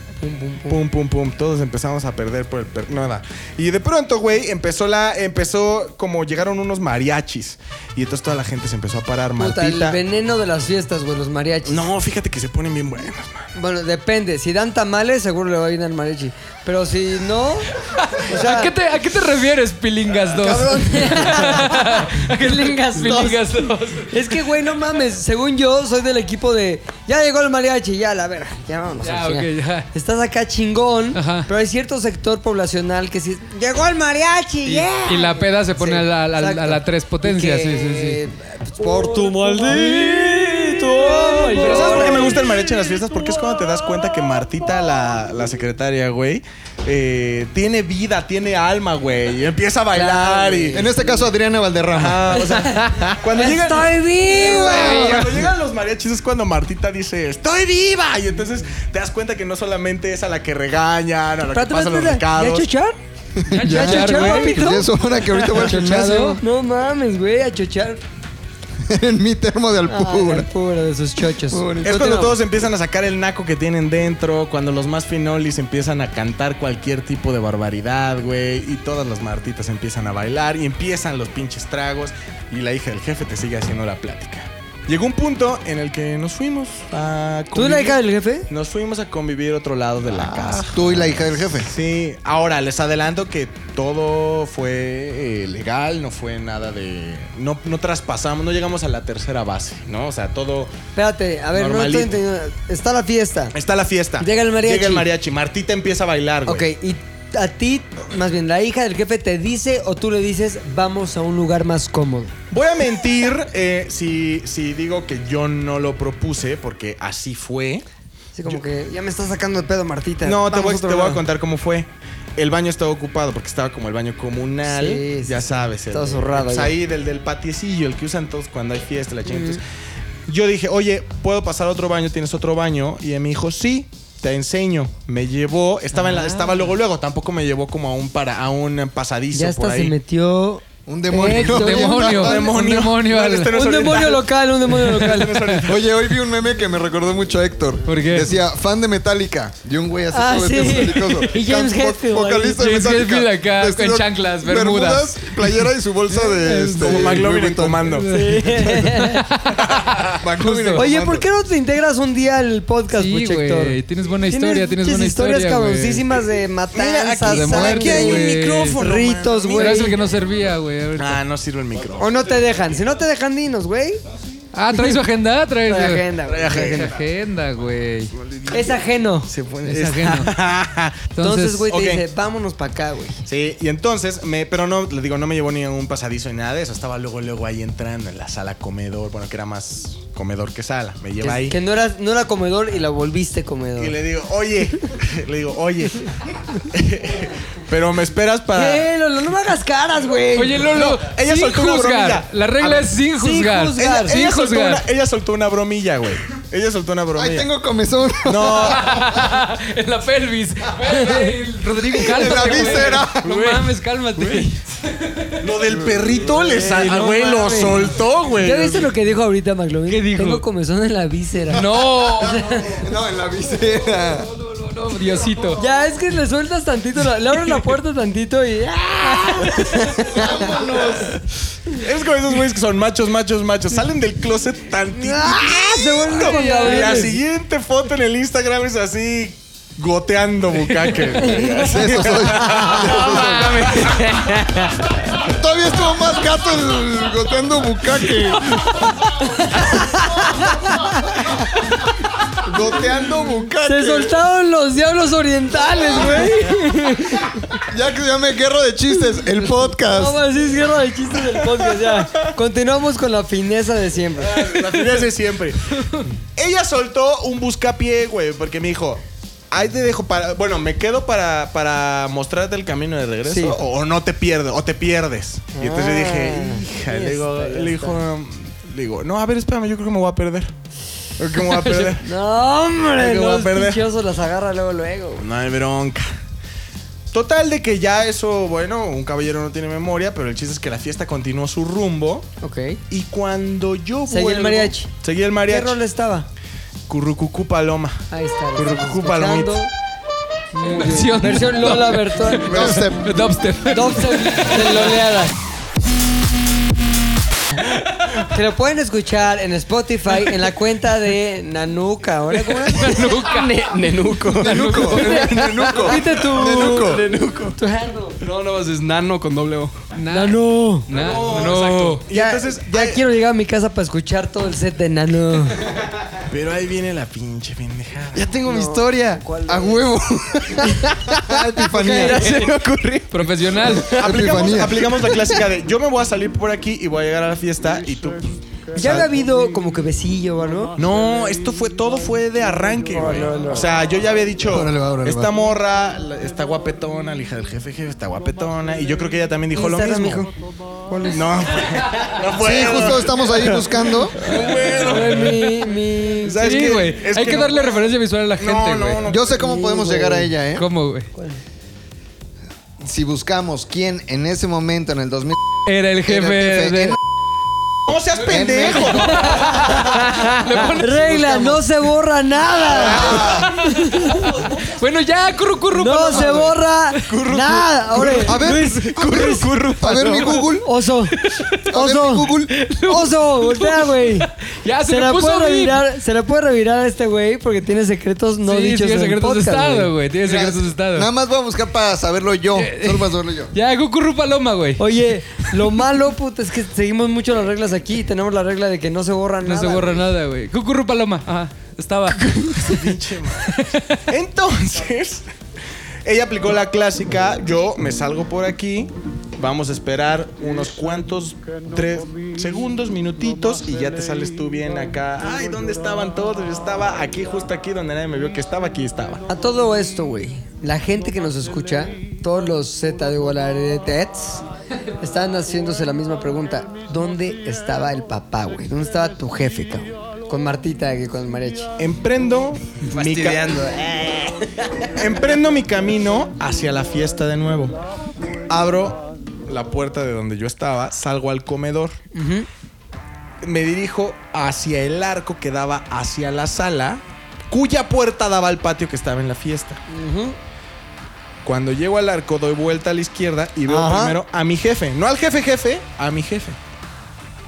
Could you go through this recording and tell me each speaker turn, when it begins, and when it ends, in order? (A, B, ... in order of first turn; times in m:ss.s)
0:00.2-0:00.8 A
0:00.7-0:10.0 B
0:09.4-0:11.9 A
0:11.6-0:13.4 B
0:13.5-0:17.7 A
0:18.0-0:24.2 C
0:18.2-0:18.7 A
0:20.6-0:23.5 A
0:24.1-0:42.4 A
0:29.0-0:29.9 C
0:31.1-0:31.5 C
0:35.0-0:38.2 C
0:39.8-0:40.8 D
0:41.6-0:50.9 B
0:49.9-0:51.0 A
0:50.7-0:52.3 E
0:51.9-1:02.7 B
0:52.4-0:55.4 A
0:54.7-0:55.2 C
1:01.5-1:03.0 A
1:03.4-1:06.4 E
1:03.5-1:04.7 C
1:03.6-1:08.0 A
1:05.4-1:06.4 C
1:08.8-1:10.5 E
1:09.9-1:12.0 A
1:11.5-1:12.4 E
1:11.8-1:40.7 B
1:27.5-1:28.5 A
1:30.1-1:31.7 E
1:40.9-1:43.5 A
1:41.5-1:42.2 B
1:43.5-1:46.7 B
1:44.2-1:45.1 A
1:46.4-1:52.3 A
1:52.5-1:57.8 B
1:58.3-2:01.2 A
2:00.2-2:09.6 B
2:04.6-2:06.7 A
2:09.2-2:09.6 A
2:10.3-2:19.9 B
2:19.3-2:22.3 A
2:20.8-2:22.5 E
2:21.2-2:23.7 C
2:22.1-2:25.9 B
2:23.5-2:25.6 A
2:24.8-2:25.2 C
2:25.6-2:38.0 E
2:27.8-2:28.3 C
2:30.1-2:32.6 A
2:32.5-2:37.2 C
2:36.8-2:38.2 B
2:37.8-2:39.6 C
2:38.1-2:39.2 A
2:39.5-2:40.2 B
2:40.2-2:41.3 E
2:40.4-2:40.8 C
2:40.7-2:50.0 A
2:42.9-2:46.1 C
2:46.7-2:50.0 B
2:47.2-2:48.8 C
2:49.5-2:51.2 C
2:51.0-2:52.2 B
2:52.0-2:54.0 A
2:54.5-2:58.1 C
2:54.7-2:55.0 A
2:55.6-2:57.0 A
2:56.2-2:57.0 B
2:58.2-3:01.1 B
2:58.5-2:59.3 A
2:59.6-3:00.3 C
3:01.1-3:01.7 C
3:01.2-3:03.2 A
3:01.7-3:02.0 B
3:03.2-3:11.6 B
3:11.2-3:13.9 A
3:13.8-3:18.9 B
3:18.5-3:20.8 A
3:20.3-3:24.8 C
3:20.7-3:22.9 B
3:23.2-3:24.2 A
3:23.8-3:27.5 B
3:27.1-3:29.0 E
3:28.2-3:29.0 B
3:28.7-3:35.6 C
3:30.8-3:31.3 A
3:31.8-3:33.5 E
3:34.2-3:34.4 D
3:35.4-3:38.9 B
3:36.5-3:42.6 A
3:36.6-3:37.8 C
3:39.9-3:40.4 C
3:41.5-3:42.7 C
3:41.8-3:44.3 E
3:44.4-3:45.6 C
3:45.5-3:50.8 A
3:49.9-3:51.2 E
3:51.7-4:04.0 B
3:54.9-3:57.2 A
3:56.2-3:57.1 C
4:00.7-4:01.0 C
4:01.2-4:01.5 A
4:01.4-4:03.8 E
4:02.8-4:04.6 D
4:04.2-4:04.5 A
4:05.2-4:08.7 E
4:09.2-4:11.1 A
4:10.7-4:11.0 E
4:12.4-4:14.1 E
4:13.6-4:17.4 A
4:15.6-4:16.4 E
4:17.5-4:20.2 E
4:19.7-4:24.6 A
4:21.5-4:22.2 B
4:24.2-4:40.5 B
4:33.2-4:33.6 A
4:35.5-4:38.0 A
4:41.2-4:42.0 B
4:41.7-4:45.2 A
4:42.9-4:43.8 B
4:45.2-4:46.1 B
4:47.1-4:52.3 B
4:52.4-4:52.8 A
4:52.9-4:55.8 B
4:54.1-4:54.9 A
4:55.5-4:56.3 A
4:56.9-4:59.6 B
4:58.1-4:59.7 A
5:00.5-5:02.8 A
5:00.6-5:05.1 C
5:02.4-5:03.2 E
5:03.6-5:05.3 A
5:08.2-5:13.1 A
5:12.4-5:13.6 C
5:13.0-5:17.6 D
5:14.4-5:15.5 C
5:14.4-5:17.0 E
5:15.0-5:15.2 A
5:15.8-5:16.9 A
5:17.5-5:18.2 A
5:18.2-5:19.8 D
5:19.9-5:22.0 C
5:20.1-5:20.9 A
5:20.9-5:22.0 D
5:21.0-5:23.0 B
5:22.1-5:25.7 A
5:26.3-5:28.3 B
5:28.1-5:29.4 D
5:28.4-5:29.9 A
5:29.5-5:32.2 E
5:30.5-5:31.2 D
5:31.6-5:32.4 A
5:31.8-5:34.3 D
5:33.1-5:34.0 C
5:33.9-5:39.1 B
5:34.0-5:34.9 E
5:38.7-5:40.7 A
5:40.8-5:50.2 B
5:42.9-5:43.7 A
5:44.5-5:45.3 E
5:49.5-5:50.3 A
5:50.9-5:51.3 A
5:51.1-5:55.5 B
5:52.4-5:54.2 E
5:54.2-5:56.5 A
5:54.9-5:55.2 C
5:56.2-5:57.8 B
5:56.3-5:59.0 C
5:58.4-5:59.2 B
5:59.0-6:00.7 E
5:59.2-6:00.3 A
6:00.6-6:01.1 C
6:02.8-6:05.4 E
6:05.6-6:07.0 C
6:06.0-6:07.0 E
6:07.8-6:09.3 B
6:08.2-6:09.0 E
6:08.9-6:11.6 C
6:09.2-6:10.0 A
6:10.7-6:14.4 A
6:12.6-6:13.5 E
6:12.7-6:13.4 B
6:13.2-6:17.3 C
6:15.7-6:19.5 A
6:17.1-6:17.6 B
6:18.0-6:18.3 C
6:18.2-6:20.6 E
6:19.9-6:20.5 C
6:20.2-6:21.2 A
6:21.2-6:21.6 C
6:21.7-6:22.6 E
6:21.7-6:24.3 A
6:22.5-6:25.8 C
6:24.8-6:29.9 A
6:28.4-6:31.1 C
6:30.2-6:33.5 E
6:32.6-6:34.8 C
6:34.8-6:40.1 A
6:35.4-6:35.7 C
6:39.4-6:42.8 C
6:42.6-6:43.6 B
6:43.4-6:44.0 C
6:44.1-6:45.3 B
6:46.0-6:59.2 B
6:59.3-7:04.4 A
7:05.0-7:11.7 A
7:11.8-7:13.6 B
7:12.9-7:14.8 D
7:15.0-7:17.8 B
7:18.5-7:22.0 B
7:22.1-7:22.5 A
7:23.4-7:29.8 B
7:29.9-7:30.4 A
7:31.4-7:36.6 B
7:33.7-7:34.2 A